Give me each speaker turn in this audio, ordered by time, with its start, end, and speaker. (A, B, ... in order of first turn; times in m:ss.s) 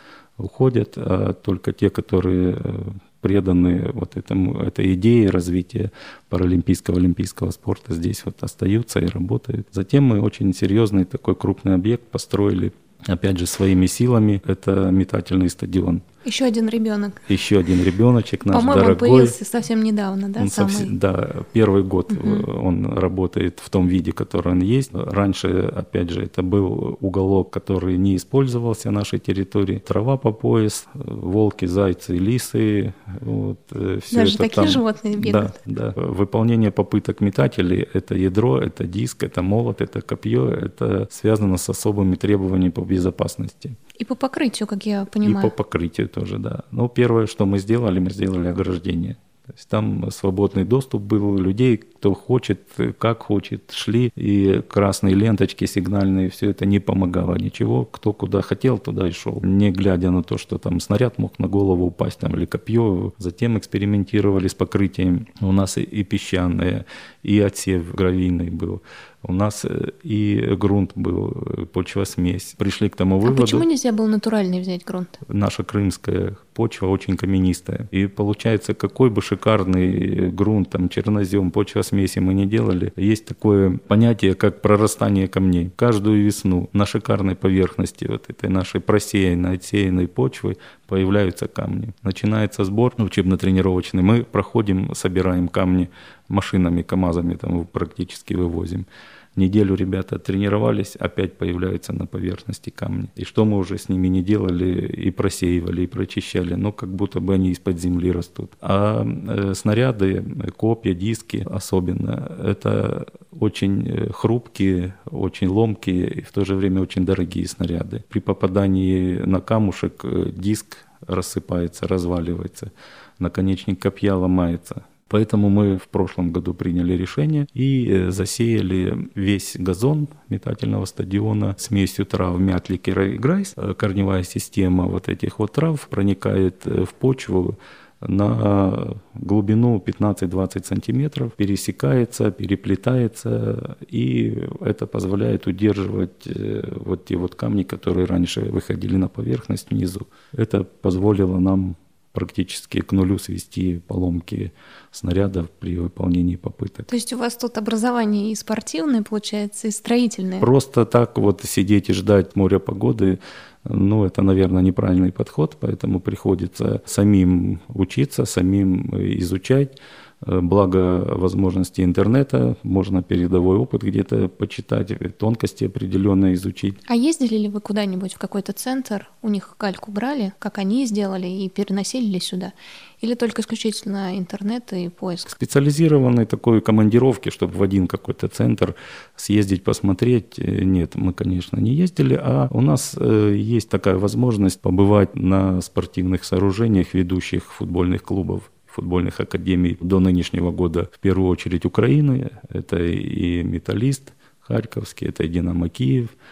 0:00.4-0:16.0 A
0:16.2-0:17.2 B
0:17.3-0:19.4 A
0:18.5-0:21.0 B
0:20.4-0:43.8 A
0:22.1-0:22.4 B
0:34.1-0:35.5 B
0:44.0-0:45.5 B
0:45.2-1:13.6 A
1:13.2-1:15.2 B
1:15.2-2:36.9 A
2:36.9-2:40.5 B
2:40.4-2:56.8 A
2:56.9-3:05.3 B
3:05.2-3:26.1 A